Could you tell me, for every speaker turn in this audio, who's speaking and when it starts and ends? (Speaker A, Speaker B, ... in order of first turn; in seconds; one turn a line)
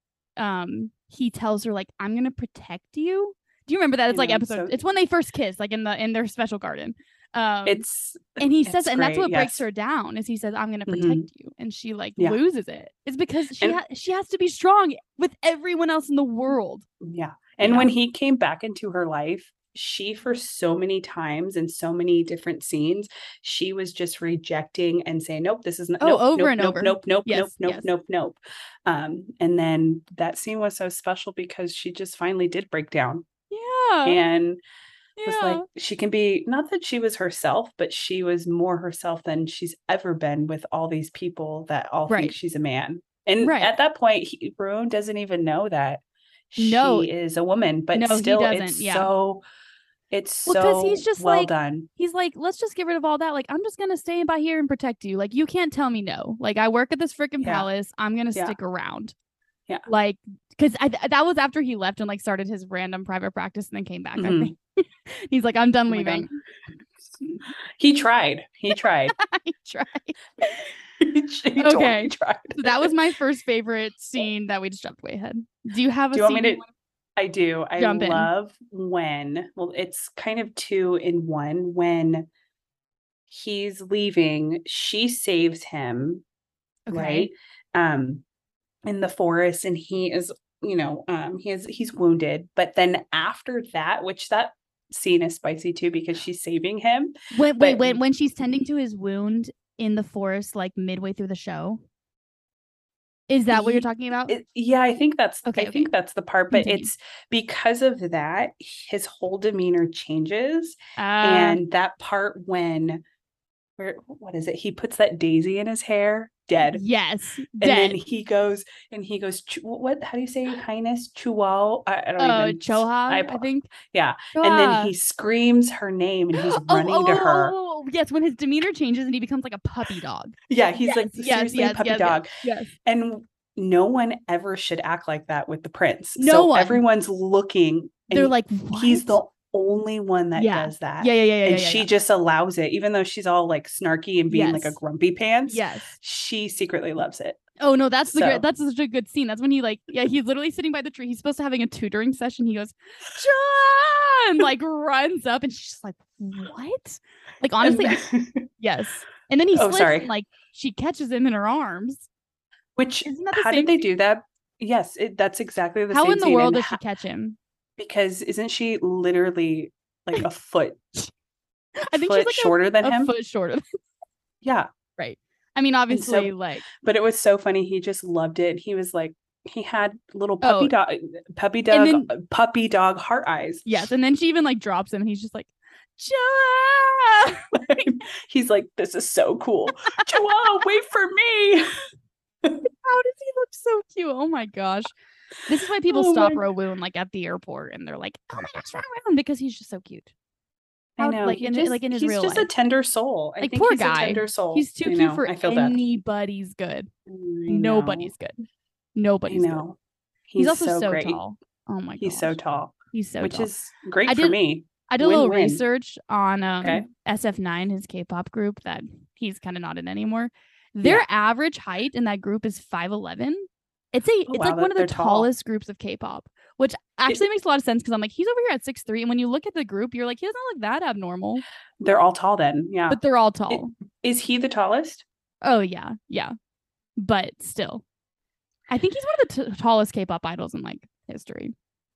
Speaker A: 0.4-7.8
Speaker B: 4.1-4.7
Speaker B: 7.7-9.6
Speaker A: 8.4-16.9
Speaker B: 10.9-11.2
Speaker B: 17.0-33.2
Speaker A: 17.6-17.9
Speaker A: 26.0-27.9
Speaker A: 33.5-34.2
Speaker B: 34.0-34.6
Speaker A: 35.2-35.6
Speaker B: 35.2-49.4
Speaker A: 42.1-42.3
Speaker A: 43.4-43.7
Speaker A: 46.6-47.1
Speaker A: 47.9-49.1
Speaker B: 50.1-51.9
Speaker A: 50.5-59.1
Speaker B: 57.4-57.7
Speaker A: 59.9-66.3
Speaker B: 64.2-64.5
Speaker B: 65.9-66.3
Speaker B: 67.8-69.1
Speaker A: 69.1-70.7
Speaker B: 71.0-72.9
Speaker A: 71.6-76.7
Speaker B: 76.1-76.6
Speaker B: 77.2-82.3
Speaker A: 77.8-78.3
Speaker B: 83.3-86.2
Speaker A: 86.9-87.3
Speaker B: 86.9-88.2
Speaker B: 88.8-98.0
Speaker A: 97.3-101.8
Speaker A: 103.3-104.3
Speaker B: 103.5-113.0
Speaker A: 105.5-105.9
Speaker A: 106.5-106.9
Speaker A: 111.0-111.6
Speaker B: 113.8-116.8
Speaker A: 116.6-118.0
Speaker B: 117.6-127.5
Speaker A: 122.2-123.7
Speaker A: 124.3-124.9
Speaker A: 126.3-132.7
Speaker B: 130.5-132.3
Speaker B: 132.8-147.4
Speaker A: 136.2-136.8
Speaker A: 138.1-139.2
Speaker A: 140.3-141.9
Speaker A: 144.3-144.8
Speaker A: 145.5-145.9
Speaker A: 147.6-158.0
Speaker B: 148.1-148.4
Speaker B: 157.6-158.4
Speaker A: 158.6-162.1
Speaker B: 159.5-160.1
Speaker B: 162.8-166.8
Speaker A: 163.0-163.8
Speaker A: 165.9-167.4
Speaker B: 167.8-170.8
Speaker A: 171.8-173.8
Speaker B: 171.9-173.1
Speaker B: 174.4-174.7
Speaker A: 175.0-176.7
Speaker B: 175.9-183.9
Speaker A: 180.4-180.7
Speaker A: 181.7-182.1
Speaker A: 183.7-188.0
Speaker B: 187.5-191.7
Speaker A: 192.7-194.9
Speaker A: 195.5-200.1
Speaker B: 195.9-196.4
Speaker B: 201.0-205.8
Speaker A: 201.0-202.5
Speaker A: 203.4-206.9
Speaker B: 207.1-208.1
Speaker A: 207.5-209.6
Speaker B: 209.3-209.8
Speaker B: 210.3-211.2
Speaker A: 210.4-212.4
Speaker B: 212.0-215.6
Speaker A: 212.9-213.5
Speaker A: 214.1-231.4
Speaker B: 216.6-216.9
Speaker B: 224.3-225.3
Speaker B: 231.8-235.0
Speaker A: 232.9-233.7
Speaker A: 235.4-236.3
Speaker A: 237.0-237.8
Speaker A: 238.7-241.5